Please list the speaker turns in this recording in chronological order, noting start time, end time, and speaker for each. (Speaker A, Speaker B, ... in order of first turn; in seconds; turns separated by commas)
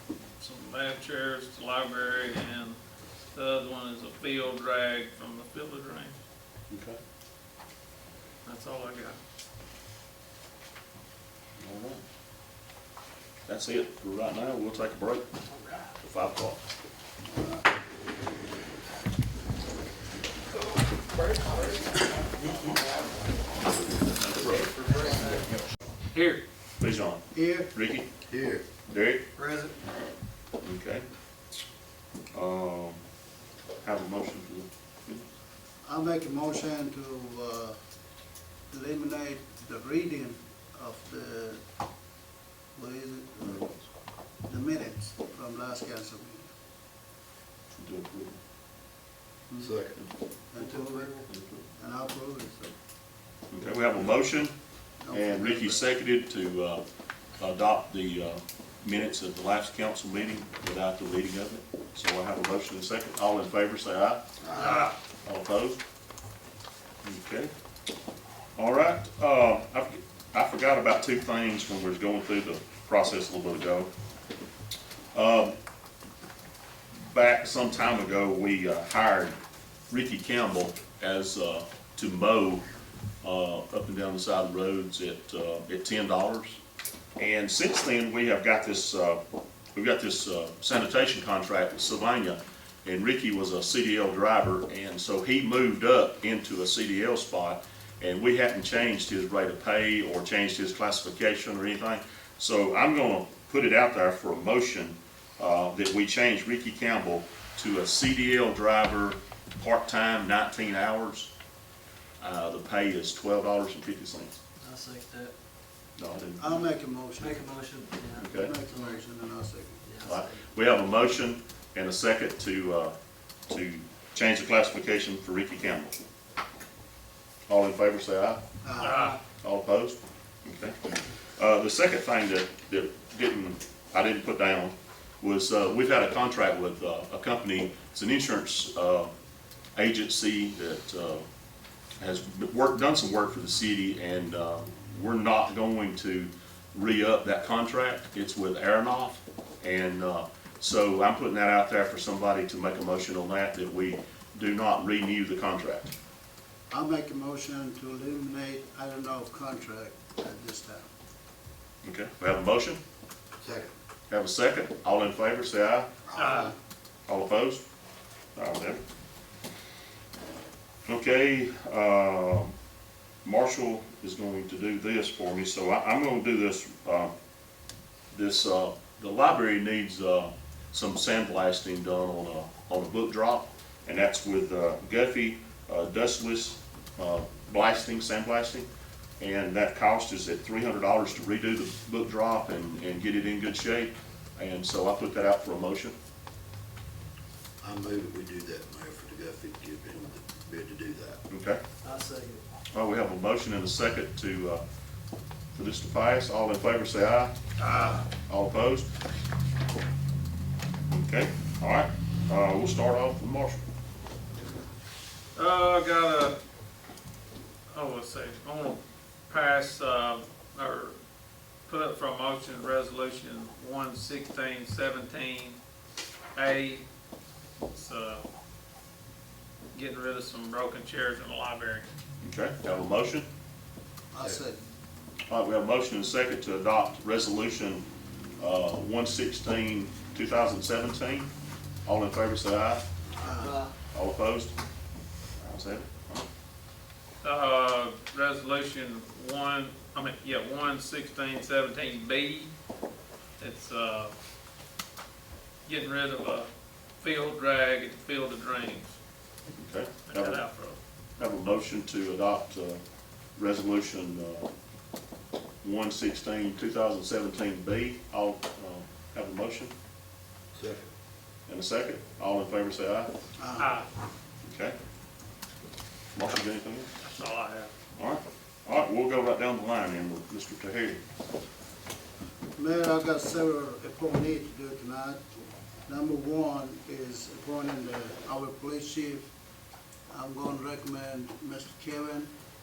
Speaker A: 0.4-2.8, Speaker A: 3.3-6.2, Speaker B: 6.7-7.0, Speaker A: 8.4-9.2, Speaker B: 11.6-12.0, Speaker B: 13.5-15.2, Speaker B: 16.0-16.6, Speaker B: 23.8-24.8, Speaker C: 24.9-25.4, Speaker A: 26.1-26.4, Speaker B: 26.8-27.2, Speaker D: 27.3-27.7, Speaker B: 27.7-28.1, Speaker E: 28.2-28.6, Speaker B: 28.9-29.2, Speaker C: 29.4-29.8, Speaker B: 30.6-31.0, Speaker B: 32.3-33.0, Speaker B: 33.8-35.2, Speaker D: 35.8-37.8, Speaker D: 38.7-41.6, Speaker D: 42.7-43.8, Speaker B: 43.4-43.8, Speaker D: 44.5-46.5, Speaker B: 47.7-48.4, Speaker D: 49.5-49.7, Speaker E: 49.6-50.0, Speaker D: 50.5-52.7, Speaker C: 50.6-51.2, Speaker B: 51.3-51.7, Speaker B: 53.5-54.5, Speaker D: 55.0-55.8, Speaker B: 55.1-56.8, Speaker B: 57.4-64.2, Speaker E: 64.4-64.8, Speaker A: 64.5-64.9, Speaker B: 65.2-65.8, Speaker B: 67.0-67.5, Speaker B: 68.6-73.9, Speaker B: 75.1-75.5, Speaker B: 77.0-79.3, Speaker B: 79.9-82.6, Speaker B: 83.2-86.6, Speaker B: 87.2-89.2, Speaker B: 89.7-111.3, Speaker B: 112.2-114.4, Speaker C: 114.6-115.3, Speaker B: 116.0-116.5, Speaker D: 116.4-117.4, Speaker C: 117.2-119.0, Speaker B: 118.2-118.5, Speaker D: 118.3-119.8, Speaker C: 119.8-120.3, Speaker B: 120.0-122.9, Speaker B: 123.5-126.0, Speaker B: 127.5-128.4, Speaker D: 128.6-129.0, Speaker A: 128.8-129.2, Speaker B: 129.4-139.1, Speaker B: 139.7-141.2, Speaker B: 142.0-155.9, Speaker D: 156.7-160.8, Speaker B: 161.8-162.8, Speaker E: 163.4-163.7, Speaker B: 164.1-165.9, Speaker A: 166.2-166.5, Speaker E: 166.2-166.4, Speaker D: 166.2-166.5, Speaker B: 167.1-167.6, Speaker B: 168.3-168.8, Speaker B: 170.8-172.5, Speaker B: 173.2-177.1, Speaker B: 178.1-188.7, Speaker B: 189.2-195.9, Speaker E: 197.6-201.2, Speaker B: 201.3-201.6, Speaker C: 201.8-202.4, Speaker B: 202.7-204.6, Speaker B: 205.5-207.3, Speaker A: 207.6-208.0, Speaker B: 208.1-208.9, Speaker B: 210.9-213.6, Speaker A: 215.3-216.4, Speaker A: 217.7-220.9, Speaker A: 221.7-225.6, Speaker A: 226.3-226.8, Speaker A: 227.7-228.3, Speaker A: 229.7-231.8, Speaker B: 232.2-233.3, Speaker D: 234.1-234.6, Speaker B: 235.3-237.8, Speaker B: 238.4-241.3, Speaker B: 241.8-242.8, Speaker D: 243.2-243.6, Speaker C: 243.4-243.7, Speaker B: 243.9-244.5, Speaker B: 245.4-246.2, Speaker A: 247.2-252.5, Speaker A: 253.4-254.1, Speaker A: 255.7-259.0, Speaker B: 259.6-260.4, Speaker A: 260.1-260.8, Speaker B: 261.2-262.8, Speaker B: 263.4-264.5, Speaker B: 265.6-269.7, Speaker E: 270.6-270.9, Speaker B: 271.5-273.1, Speaker D: 273.4-273.7, Speaker A: 273.6-273.9, Speaker B: 274.4-274.7, Speaker B: 276.1-276.9, Speaker A: 277.0-277.7, Speaker B: 278.0-281.0, Speaker D: 282.6-285.2, Speaker D: 285.9-289.3, Speaker D: 290.1-292.3